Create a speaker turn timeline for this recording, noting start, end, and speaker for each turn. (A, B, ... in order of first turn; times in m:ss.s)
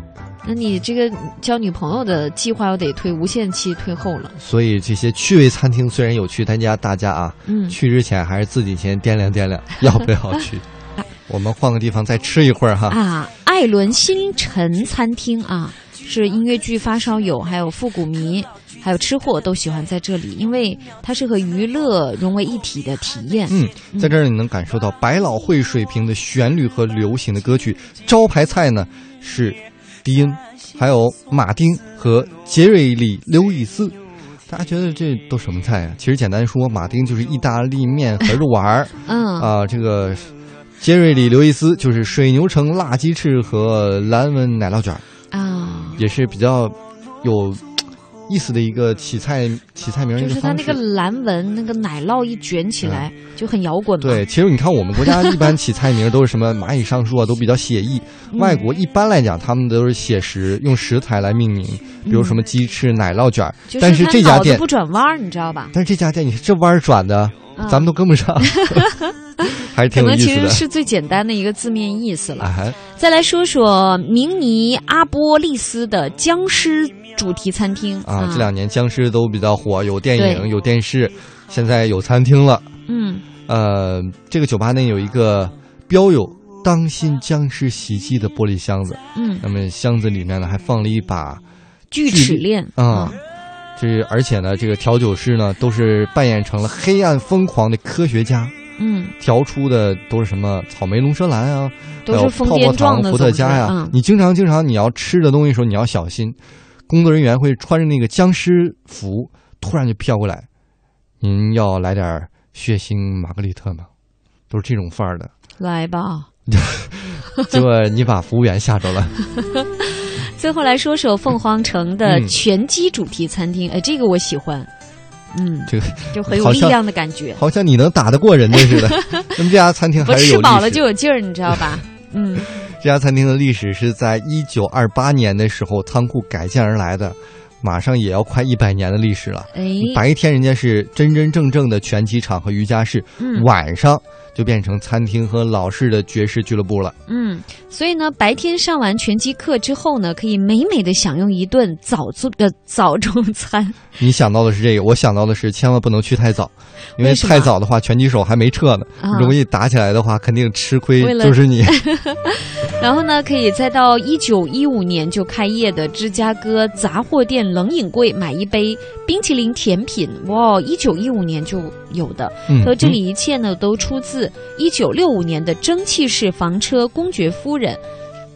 0:00.4-0:04.3 A
0:04.4-0:10.6 B
0:07.4-0:07.8 A
0:11.3-0:13.0 B
0:12.9-0:24.1 A
0:23.5-0:34.0 B
0:34.5-0:45.0 B
0:39.0-0:39.5 A
0:45.3-0:46.0 A
0:46.0-0:50.8 B
0:50.2-0:54.2 A
0:52.8-0:53.1 B
0:54.0-1:04.6 B
0:55.0-0:55.5 A
0:58.3-0:58.6 A
1:02.0-1:02.4 A
1:03.7-1:05.7 A
1:05.7-1:08.9 B
1:07.6-1:07.9 A
1:08.4-1:09.2 A
1:09.4-1:10.6 B
1:09.9-1:18.5 A
1:12.4-1:12.8 B
1:18.0-1:22.7 B
1:20.1-1:20.5 A
1:22.9-1:23.2 A
1:23.5-1:31.4 B
1:29.1-1:29.4 A
1:31.9-1:33.2 A
1:32.0-1:33.2 B
1:33.8-1:38.5 B
1:38.8-1:39.1 A
1:39.2-1:46.4 B
1:42.0-1:44.0 A
1:46.9-1:50.4 B
1:51.2-1:53.9 B
1:54.5-1:55.3 B
1:55.6-1:56.3 A
1:56.5-1:59.1 B
1:59.4-2:04.7 A
2:02.0-2:02.4 B
2:05.3-2:07.4 A
2:05.7-2:06.8 B
2:07.4-2:10.8 B
2:08.5-2:09.4 A
2:10.0-2:12.5 A
2:12.4-2:26.9 B
2:19.5-2:20.0 A
2:23.2-2:23.5 A
2:27.1-2:33.8 A
2:34.0-2:41.8 B
2:37.0-2:37.5 A
2:39.0-2:39.4 A
2:41.0-2:57.8 A
2:52.5-2:53.0 B